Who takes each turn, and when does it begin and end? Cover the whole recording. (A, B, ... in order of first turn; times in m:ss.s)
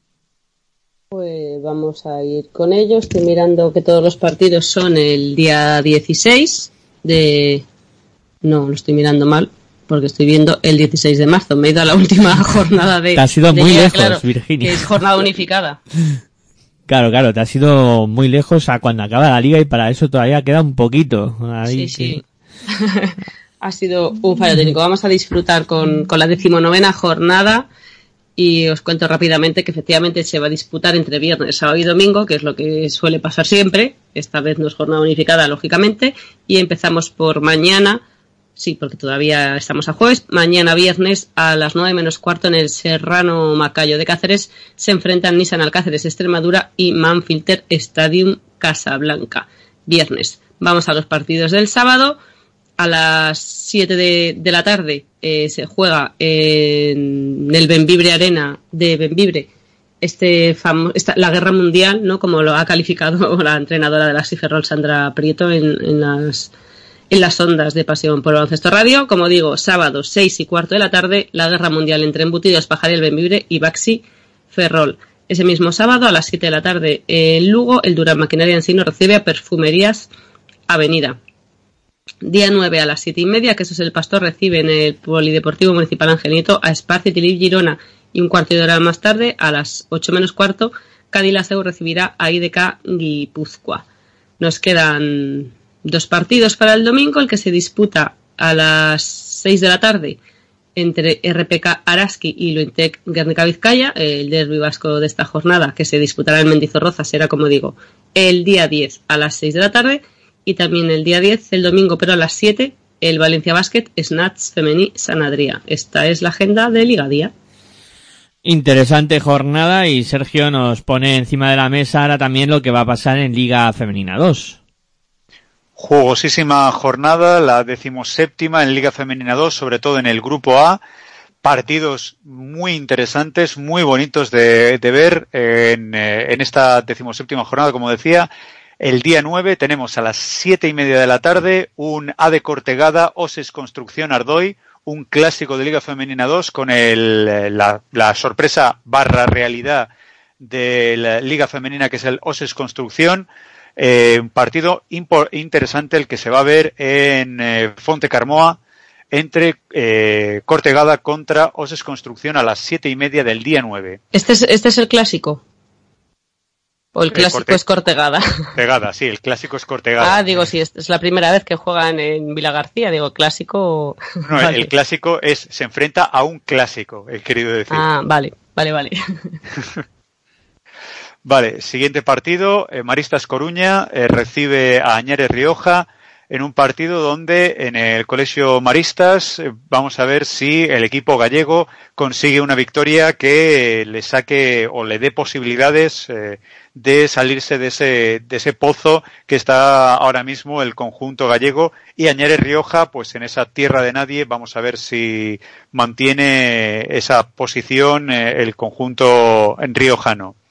0:01.1-0:07.6 A
0:08.4-0:15.8 A
0:13.2-0:14.9 B
0:16.9-0:22.2 B
0:21.7-0:27.7 A
0:28.4-0:38.0 A
0:38.6-0:52.2 A
0:52.8-0:59.5 A
1:00.0-1:06.5 A
1:07.1-1:20.1 A
1:20.7-1:21.2 A
1:22.2-1:33.8 A
1:34.4-1:40.2 A
1:40.8-1:57.3 A
1:58.4-2:04.6 B
2:05.8-2:10.8 C
2:11.4-2:18.3 C
2:18.8-2:29.9 C
2:30.4-2:33.3 C
2:33.8-2:38.6 C
2:39.1-2:44.0 C
2:44.1-2:45.4 A
2:47.0-2:48.5 A
2:47.1-2:47.6 C
2:48.6-2:50.4 C
2:50.0-2:54.7 A
2:54.3-2:57.9 C
2:57.7-2:59.4 A
3:01.2-3:30.4 C